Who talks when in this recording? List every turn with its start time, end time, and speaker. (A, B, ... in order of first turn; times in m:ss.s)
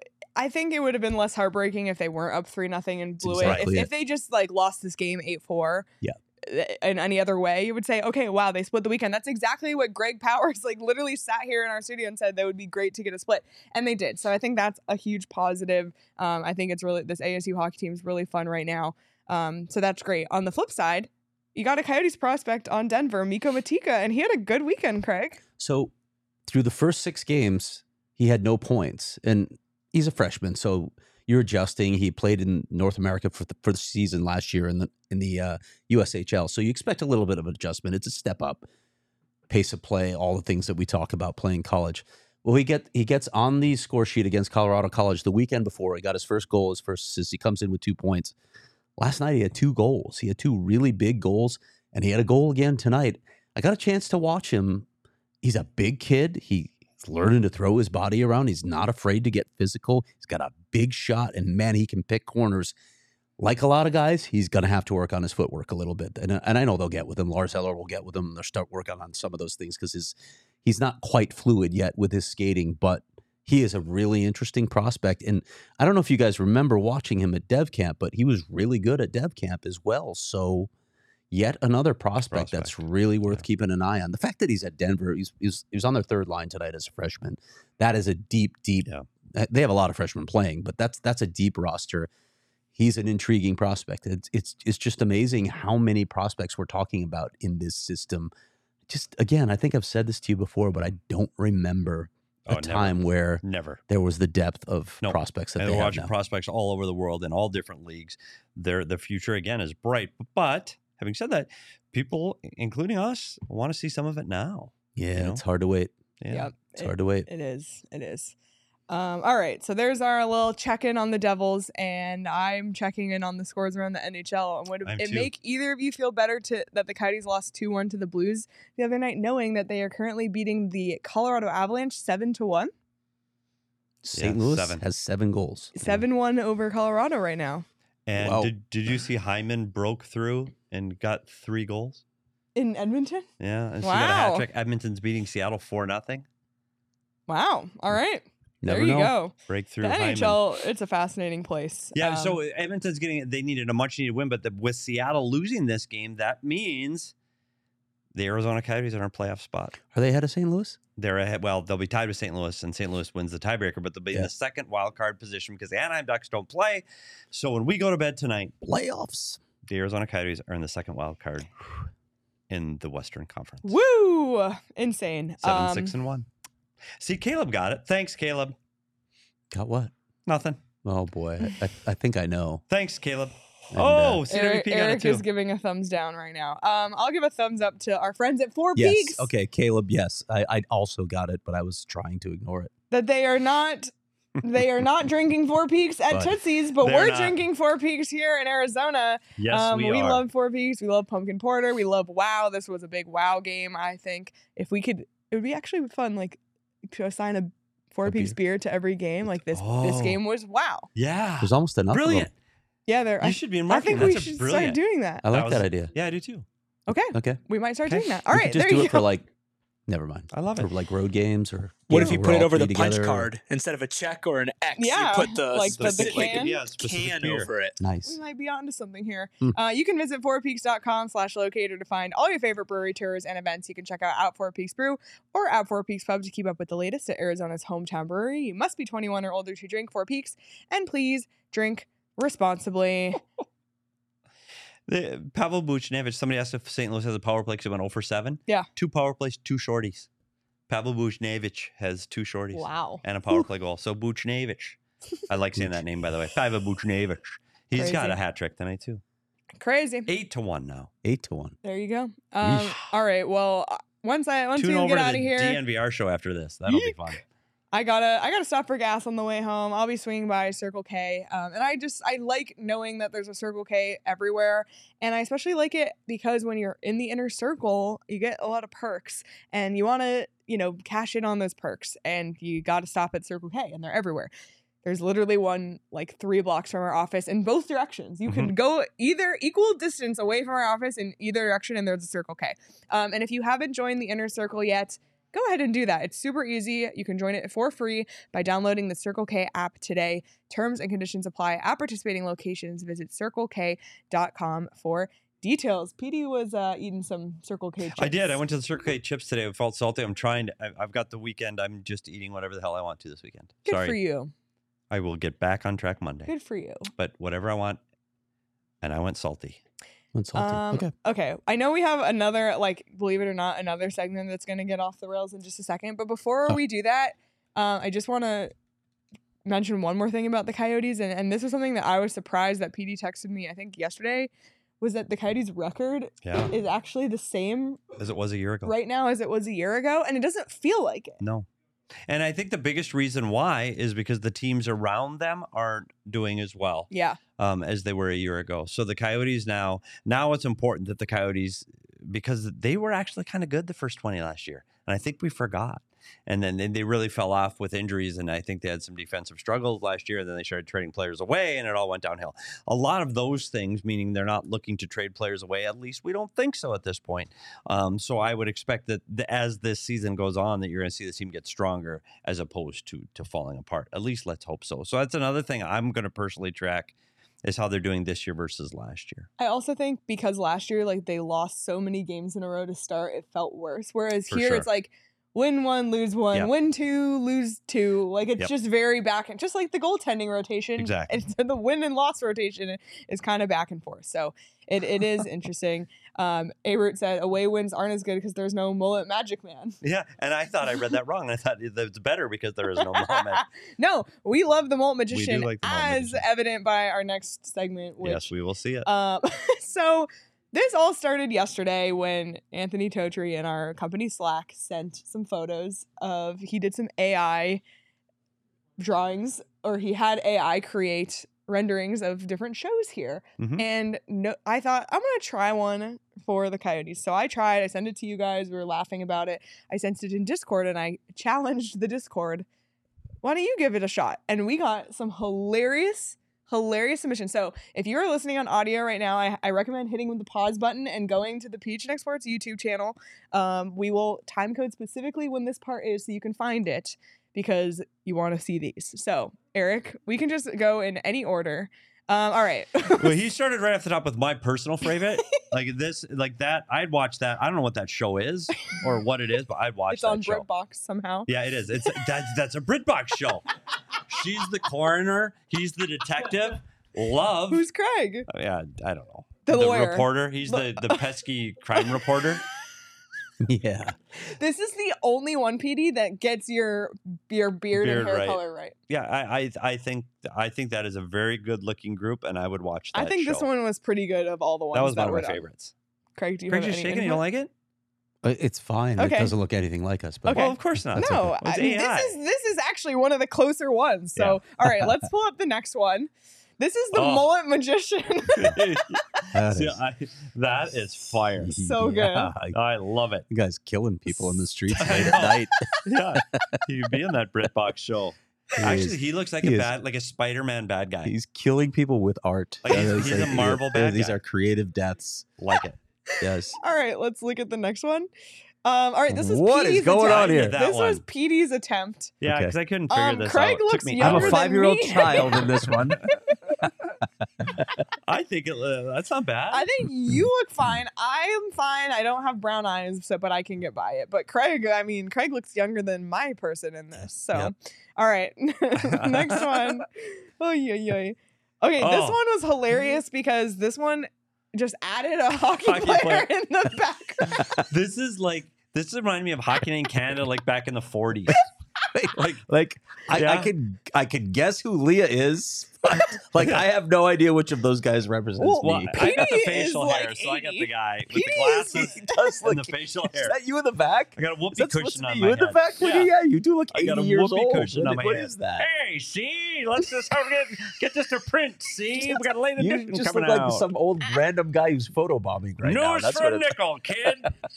0:00.4-0:05.9 A
0:03.2-0:03.9 B
0:03.4-0:03.7 C
0:06.4-0:25.4 A
0:25.6-0:25.9 B
0:26.5-0:38.7 B
0:39.5-0:48.4 B
0:49.0-0:54.9 B
0:55.4-1:02.7 B
1:03.4-1:20.7 B
1:21.3-1:32.1 B
1:22.3-1:22.7 C
1:32.8-1:38.3 B
1:38.9-1:46.1 B
1:42.5-1:43.8 C
1:45.0-1:55.4 C
1:55.0-1:55.9 B
1:56.2-1:56.5 C
1:56.3-1:58.3 A
1:56.8-1:57.3 B
1:58.9-2:12.7 A
2:04.8-2:05.3 C
2:14.0-2:16.0 B
2:14.2-2:14.8 C
2:15.8-2:17.6 A
2:18.1-2:22.0 C
2:18.2-2:18.5 B
2:22.6-2:23.3 A
2:23.4-2:26.3 C
2:23.8-2:24.4 A
2:27.3-2:32.4 A
2:28.6-2:29.1 B
2:29.5-2:30.4 C
2:32.0-2:37.1 C
2:38.1-2:39.8 C
2:39.9-2:40.8 B
2:41.0-2:48.5 C
2:48.6-2:49.4 B
2:49.7-2:51.5 C
2:52.5-2:53.8 C
2:53.6-2:55.9 A
2:55.4-2:56.3 C
2:57.0-2:58.6 C
2:59.5-2:59.9 B
3:00.3-3:00.6 C
3:00.8-3:02.6 B
3:02.7-3:05.2 C
3:03.7-3:04.2 B
3:04.3-3:09.3 A
3:08.8-3:12.7 B
3:12.9-3:30.9 A
3:16.8-3:17.4 C
3:19.4-3:20.2 C
3:28.0-3:28.4 B
3:29.5-3:30.2 C
3:31.0-3:32.3 C
3:31.4-3:32.3 B
3:32.9-3:35.2 A
3:33.2-3:36.4 C
3:35.2-3:35.9 B
3:36.9-3:39.1 A
3:37.1-3:37.4 B
3:37.9-3:38.1 C
3:38.3-3:39.3 B
3:39.9-3:43.3 B
3:40.3-3:40.7 C
3:41.9-3:47.8 D
3:44.8-3:46.6 A
3:45.7-3:47.5 C
3:47.8-3:48.2 B
3:48.0-4:03.2 A
4:04.9-4:10.1 C
4:10.7-4:19.0 C
4:12.5-4:13.0 A
4:17.8-4:18.2 A
4:19.6-4:20.1 A
4:20.1-4:20.9 C
4:21.0-4:21.6 B
4:21.6-4:25.6 A
4:22.4-4:22.8 B
4:24.6-4:27.2 C
4:26.7-4:27.1 A
4:27.7-4:44.3 A
4:44.8-5:08.4 A
4:48.3-4:48.5 C
5:08.0-5:14.0 C
5:13.7-5:14.3 A
5:14.9-5:16.3 C
5:16.3-5:16.9 A
5:17.0-5:17.8 C
5:18.8-5:19.6 C
5:20.1-5:20.9 B
5:20.4-5:28.5 A
5:29.5-5:37.8 A
5:36.2-5:36.5 C
5:38.0-5:38.7 C
5:38.6-5:41.2 A
5:41.2-5:41.5 C
5:42.1-6:19.3 C
5:46.9-5:47.2 A
6:19.4-6:39.8 A
6:24.3-6:24.7 C
6:30.8-6:31.1 C
6:39.8-6:43.5 C
6:42.8-6:48.3 A
6:45.1-6:46.2 C
6:48.0-6:48.9 C
6:48.8-6:57.6 A
6:58.8-7:12.5 A
7:03.4-7:03.6 C
7:13.2-7:33.2 A
7:33.0-7:40.5 C
7:39.9-7:41.3 A
7:41.3-7:43.5 C
7:44.0-7:47.6 C
7:47.5-7:48.3 A
7:48.3-7:52.4 C
7:49.4-7:51.0 A
7:53.4-7:54.0 B
7:54.3-7:58.7 A
7:57.7-8:03.5 C
8:02.9-8:05.4 A
8:04.7-8:05.7 C
8:06.2-8:07.2 A
8:06.5-8:07.5 C
8:08.2-8:11.4 B
8:09.0-8:09.3 A
8:10.3-8:18.8 A
8:10.3-8:12.2 C
8:16.9-8:17.3 C
8:18.4-8:21.6 C
8:19.3-8:19.8 B
8:21.4-8:22.6 B
8:21.6-8:22.3 A
8:22.5-8:23.3 C
8:23.3-8:26.6 B
8:24.7-8:31.1 C
8:28.6-8:29.7 B
8:31.0-8:35.3 B
8:32.6-8:34.2 C
8:35.4-8:35.8 C
8:36.2-8:38.1 A
8:36.2-8:36.6 B
8:38.6-8:42.2 A
8:39.1-8:40.6 B
8:40.0-8:41.0 C
8:42.2-8:44.4 C
8:42.2-8:42.5 B
8:42.9-8:46.5 A
8:44.0-8:46.0 B
8:45.3-8:45.6 C
8:48.0-8:49.7 C
8:49.5-9:07.5 A
8:58.8-8:59.8 C
9:01.8-9:02.2 C
9:05.6-9:06.3 C
9:07.3-9:07.6 B
9:07.6-9:11.5 C
9:11.9-9:19.1 B
9:12.1-9:12.4 C
9:13.1-9:13.5 C
9:18.4-9:22.3 A
9:18.6-9:23.4 C
9:21.7-9:28.7 B
9:24.2-9:26.1 C
9:26.7-9:33.7 C
9:32.6-9:36.5 B
9:35.6-9:37.3 C